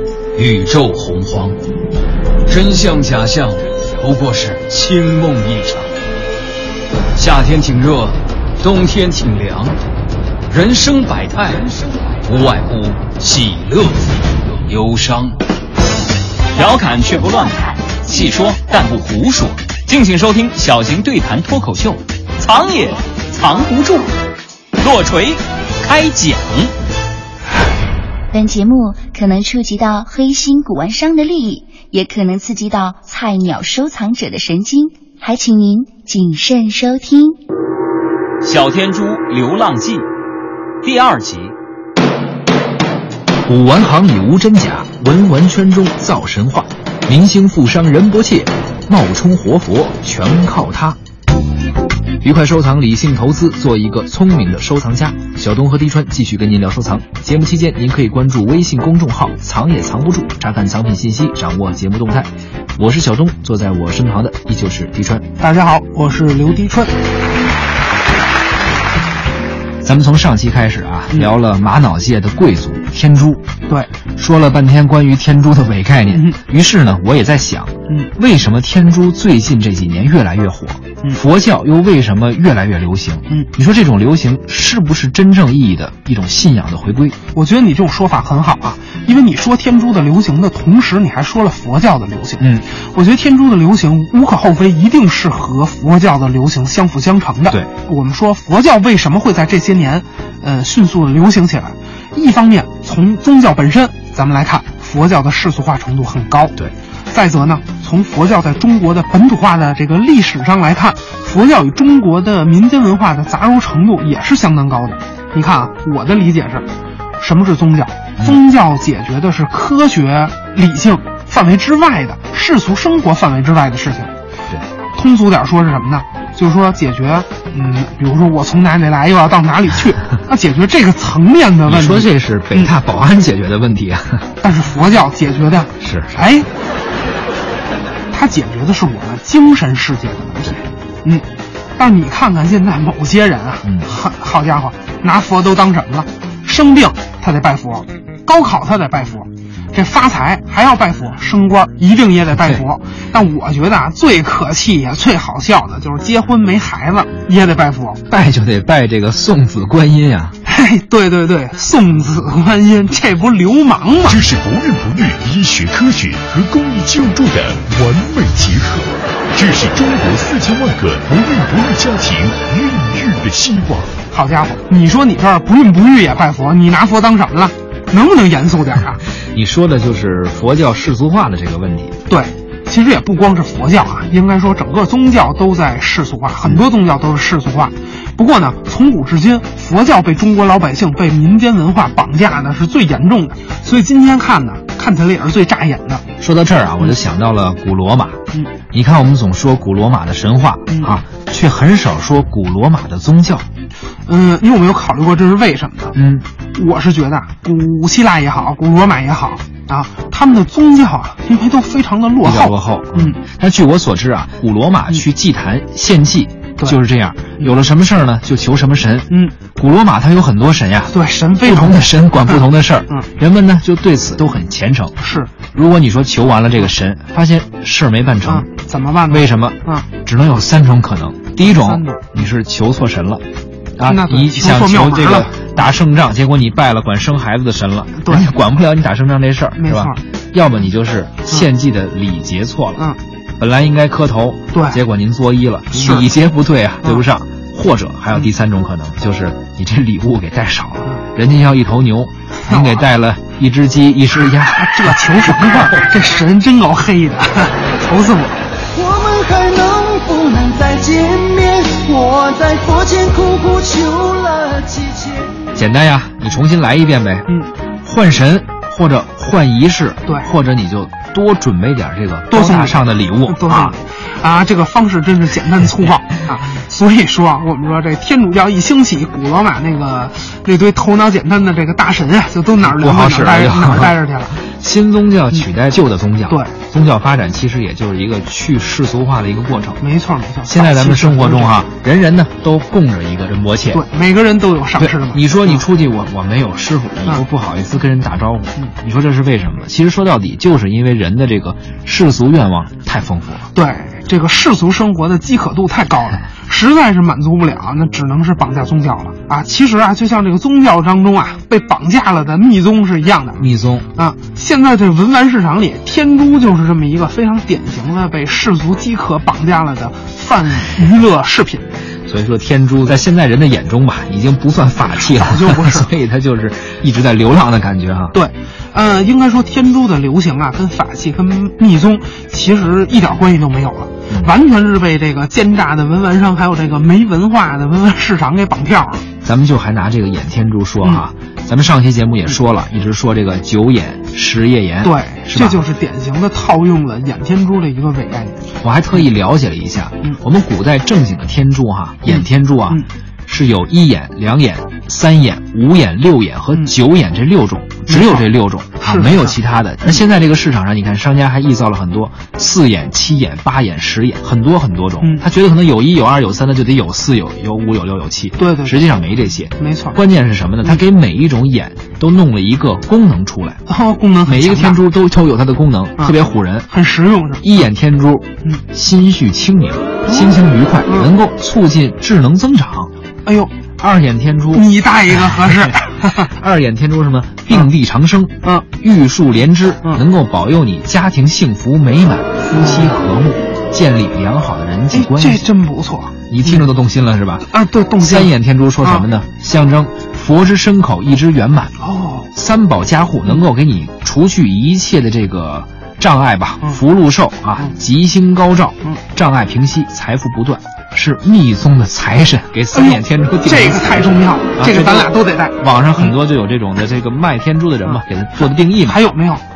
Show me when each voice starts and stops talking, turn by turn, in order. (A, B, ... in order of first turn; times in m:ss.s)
0:00.3-0:01.6 A
0:02.4-0:05.9 A
0:07.1-0:09.8 A
0:10.5-0:11.7 A
0:12.2-0:15.4 A
0:16.5-0:24.1 B
0:24.8-0:26.7 B
0:28.3-0:37.4 C
0:38.4-0:40.1 B
0:40.8-0:41.5 B
0:43.4-0:51.0 D
0:52.2-1:05.2 D
1:05.4-1:06.9 E
1:09.8-1:13.4 D
1:14.2-1:27.2 D
1:16.1-1:16.4 E
1:27.3-1:46.6 E
1:32.4-1:32.7 D
1:47.1-1:56.6 E
1:57.2-2:04.1 E
2:04.9-2:12.7 E
2:11.6-2:14.3 D
2:14.4-2:16.5 E
2:15.8-2:16.2 D
2:18.1-2:21.2 E
2:21.8-2:38.0 E
2:23.6-2:23.9 D
2:38.1-2:40.4 D
2:40.4-2:44.2 E
2:44.1-2:54.0 F
2:54.1-2:59.0 E
2:59.2-3:01.9 D
3:02.1-3:16.0 E
3:16.2-3:18.2 D
3:18.7-3:23.4 D
3:20.7-3:20.9 E
3:24.0-3:26.0 E
3:25.9-3:26.2 D
3:26.5-3:33.2 E
3:32.2-3:45.0 D
3:39.1-3:39.3 E
3:40.9-3:43.1 E
3:45.0-3:45.3 E
3:45.5-3:48.4 D
3:48.2-3:49.9 E
3:49.1-3:53.2 D
3:51.4-3:52.2 E
3:53.8-4:02.8 D
3:53.8-3:55.4 E
3:58.0-3:58.3 E
3:59.6-4:00.0 E
4:03.4-4:15.0 D
4:04.5-4:04.8 E
4:05.7-4:06.1 E
4:12.4-4:12.8 E
4:14.2-4:18.4 E
4:18.7-4:25.3 G
4:25.5-4:27.3 D
4:27.8-4:33.8 D
4:32.3-4:44.4 E
4:42.6-4:49.8 D
4:49.8-4:51.6 E
4:50.5-4:53.8 D
4:53.7-4:55.6 E
4:54.8-5:03.4 D
5:03.5-5:21.7 E
5:13.4-5:13.9 D
5:22.1-5:28.2 D
5:25.0-5:25.9 E
5:28.1-5:39.0 E
5:39.2-5:45.6 D
5:44.8-5:48.4 E
5:48.6-6:13.6 D
5:52.1-5:52.8 E
5:57.9-5:58.2 E
5:58.8-6:00.0 E
6:08.4-6:08.7 E
6:09.6-6:10.0 E
6:13.7-6:14.8 E
6:14.2-6:16.7 D
6:16.7-6:17.6 E
6:17.4-6:22.9 D
6:20.0-6:21.1 E
6:23.2-6:23.6 E
6:23.8-6:24.7 D
6:24.5-6:26.3 E
6:26.2-6:35.4 D
6:32.5-6:33.0 E
6:34.9-6:36.7 E
6:36.3-6:37.5 D
6:37.4-6:39.1 E
6:38.0-6:41.7 D
6:41.8-6:42.3 E
6:42.3-6:59.0 D
6:52.7-6:56.1 E
6:57.8-6:59.4 E